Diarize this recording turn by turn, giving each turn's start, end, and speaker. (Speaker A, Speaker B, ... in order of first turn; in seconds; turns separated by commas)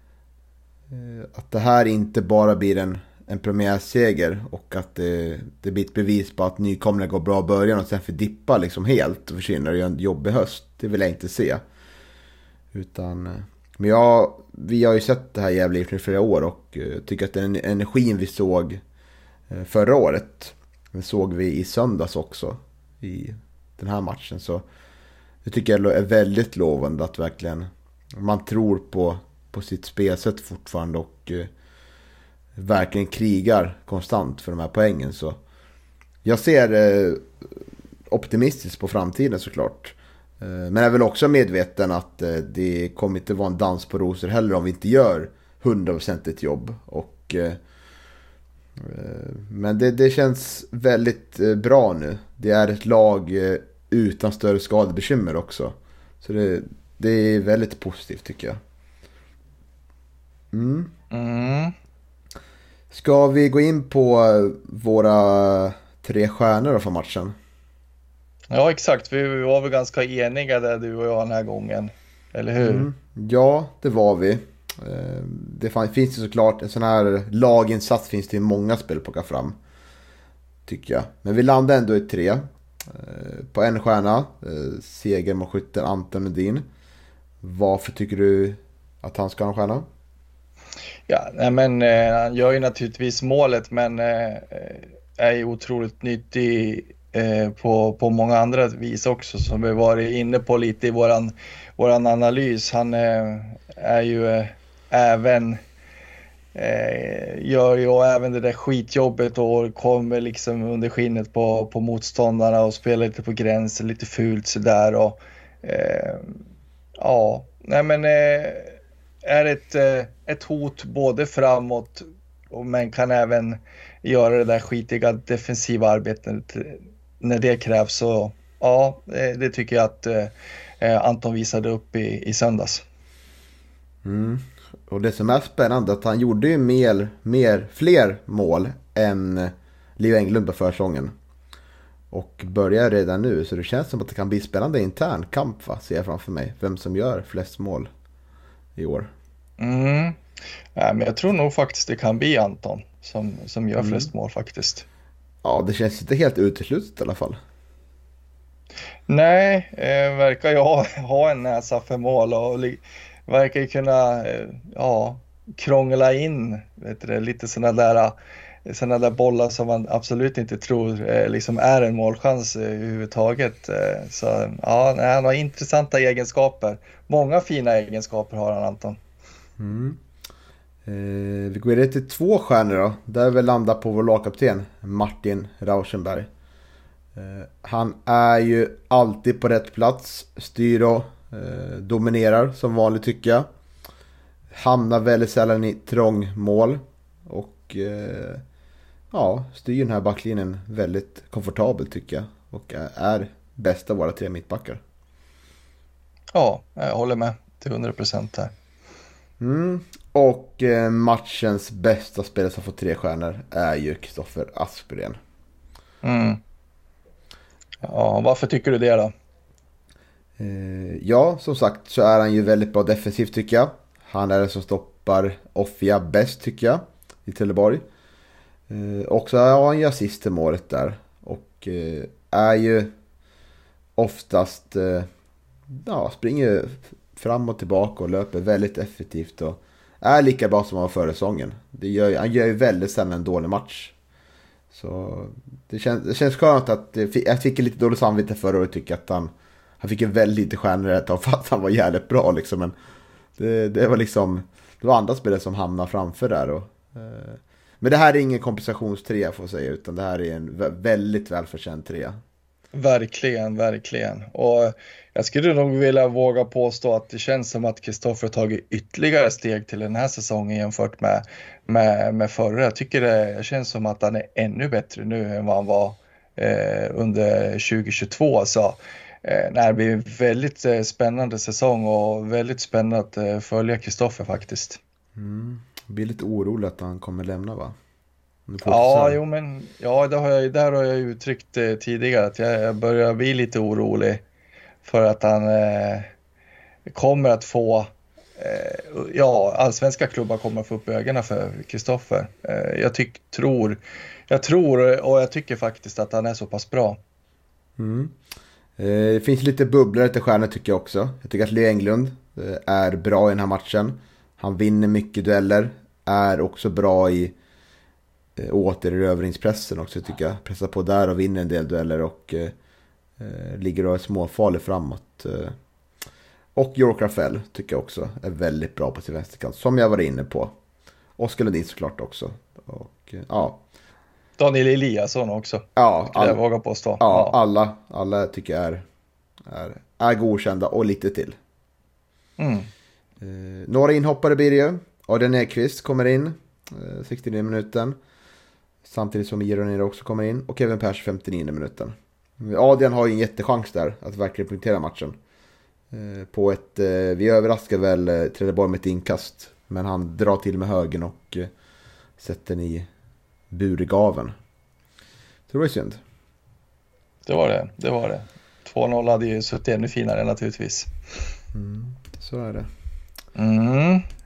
Speaker A: 0.9-11.6, Speaker A: 12.7-18.8, Speaker A: 19.5-24.6, Speaker A: 25.4-31.5, Speaker A: 32.6-35.4, Speaker A: 36.2-37.5, Speaker A: 38.1-47.6, Speaker A: 48.8-58.6, Speaker A: 60.5-60.9, Speaker B: 61.1-61.7, Speaker A: 62.9-67.3, Speaker B: 68.5-72.9, Speaker A: 72.6-79.6, Speaker A: 80.7-86.7, Speaker A: 87.4-89.9, Speaker B: 91.1-105.6, Speaker B: 106.5-116.4, Speaker B: 117.0-132.8, Speaker A: 134.0-141.1, Speaker A: 142.1-147.9, Speaker A: 148.8-149.1, Speaker B: 149.6-150.2, Speaker B: 150.8-154.9, Speaker A: 153.8-154.1, Speaker A: 155.4-157.4, Speaker B: 159.1-168.2, Speaker B: 168.7-179.0, Speaker A: 179.6-180.0, Speaker A: 180.8-186.3, Speaker A: 187.2-193.5, Speaker A: 194.5-198.4, Speaker A: 199.1-204.8, Speaker B: 206.3-208.5, Speaker A: 209.4-215.2, Speaker B: 216.0-216.4, Speaker B: 217.8-219.1, Speaker A: 220.4-227.8, Speaker A: 228.7-232.9, Speaker A: 234.0-235.1, Speaker A: 235.7-243.9, Speaker A: 244.7-252.8, Speaker A: 253.4-262.2, Speaker B: 262.7-284.8, Speaker A: 285.2-287.8, Speaker A: 288.5-289.2, Speaker B: 288.6-294.2, Speaker B: 294.8-296.1, Speaker B: 296.9-307.0, Speaker A: 307.8-308.2, Speaker A: 308.8-317.4, Speaker A: 318.4-322.5, Speaker A: 323.2-325.6, Speaker A: 326.6-330.6, Speaker A: 331.2-333.6, Speaker B: 334.4-337.4, Speaker A: 335.8-336.4, Speaker A: 337.0-338.9, Speaker A: 339.5-341.4, Speaker B: 342.4-342.7, Speaker A: 343.2-348.0, Speaker A: 348.8-355.2, Speaker A: 355.9-361.5, Speaker A: 362.2-362.9, Speaker A: 363.5-364.3, Speaker A: 365.5-366.0, Speaker B: 367.2-370.9, Speaker A: 371.5-372.7, Speaker B: 373.4-374.1